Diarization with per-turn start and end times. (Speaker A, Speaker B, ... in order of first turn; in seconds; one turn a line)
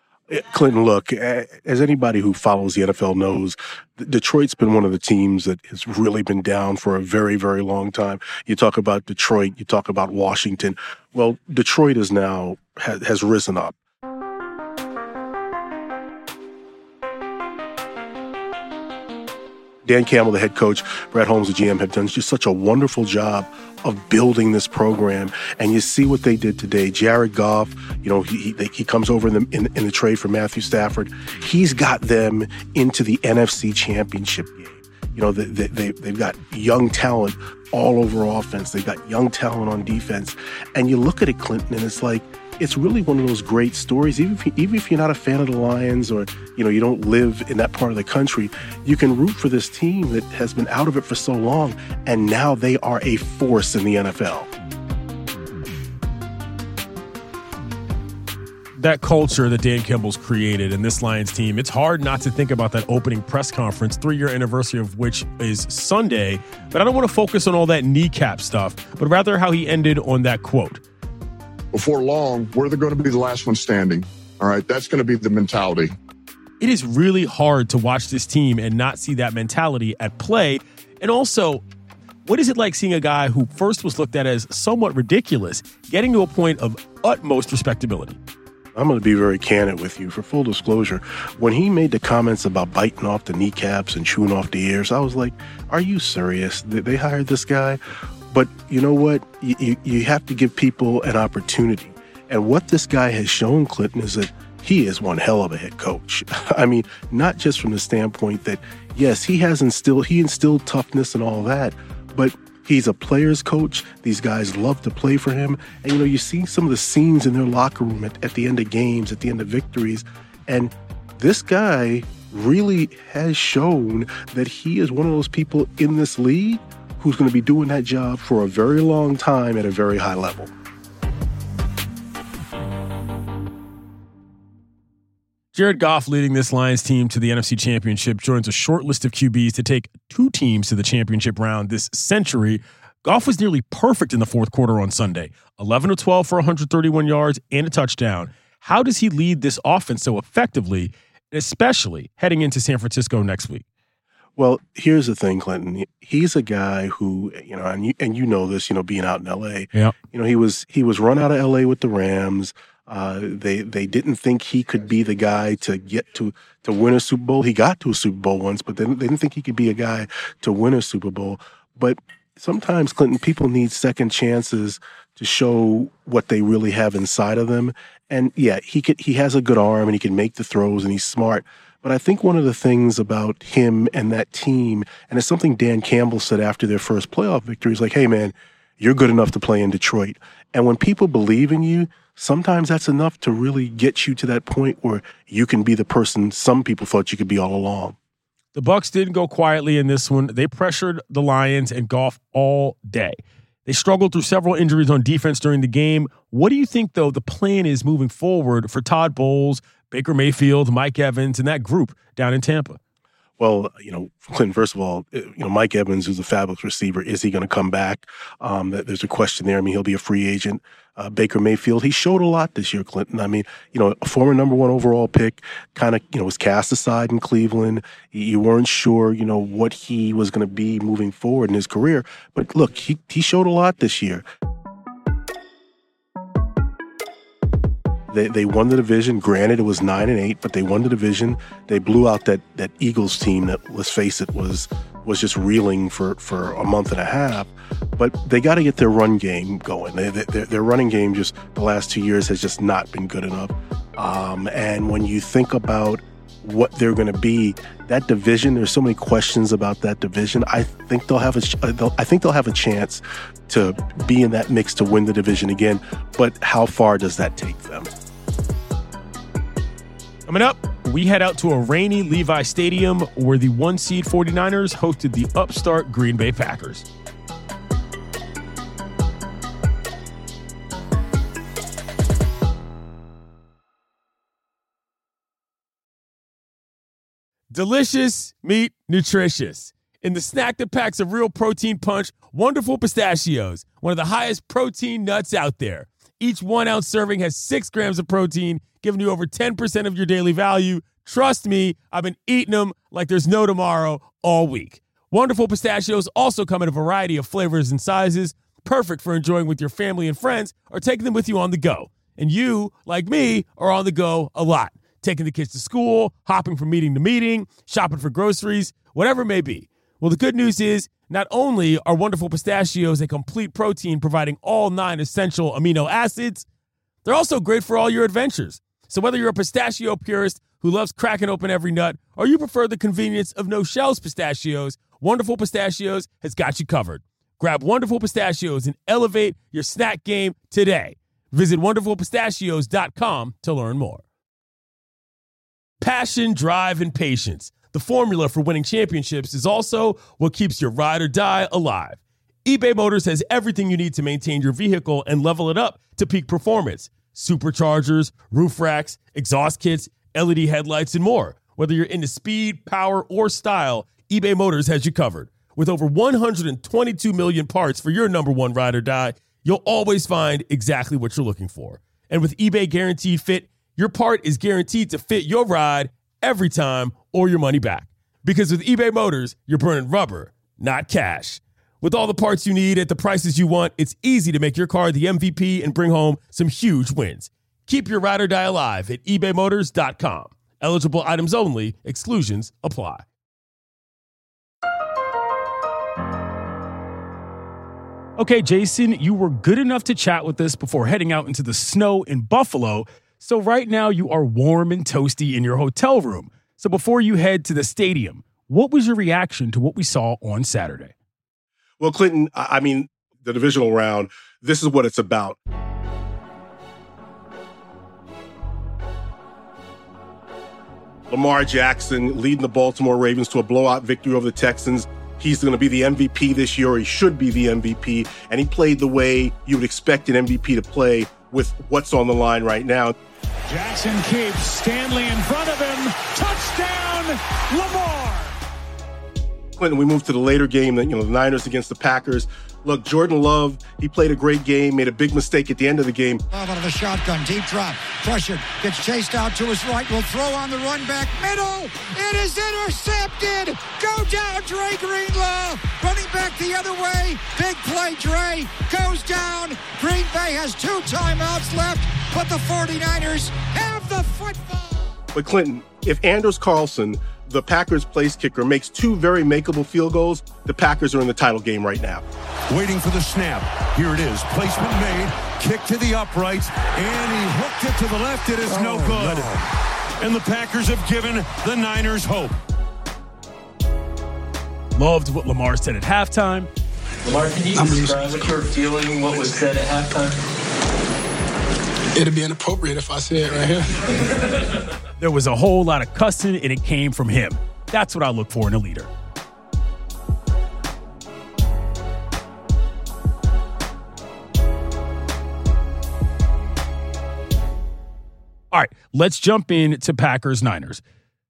Speaker A: 0.3-13.8
Speaker A: 19.9-54.5
Speaker B: 58.8-70.8
Speaker C: 71.7-75.9
Speaker B: 76.6-81.6
Speaker B: 82.3-88.2
Speaker A: 88.8-130.5
Speaker B: 135.5-153.6
Speaker A: 154.4-198.0
Speaker B: 198.5-212.8
Speaker A: 213.4-234.3
Speaker A: 238.1-267.9
Speaker B: 270.3-276.9
Speaker B: 287.5-326.5
Speaker B: 327.1-344.0
Speaker B: 345.8-393.1
Speaker B: 398.2-410.9
Speaker A: 411.8-415.4
Speaker A: 421.1-432.9
Speaker D: 433.5-438.4
Speaker A: 439.6-446.2
Speaker E: 446.3-464.9
Speaker A: 465.1-472.0
Speaker F: 472.5-479.5
Speaker F: 480.0-482.4
Speaker B: 484.8-486.5
Speaker G: 487.1-490.1
Speaker H: 487.5-488.3
Speaker H: 491.9-493.8
Speaker B: 495.0-498.9
Speaker B: 508.5-510.8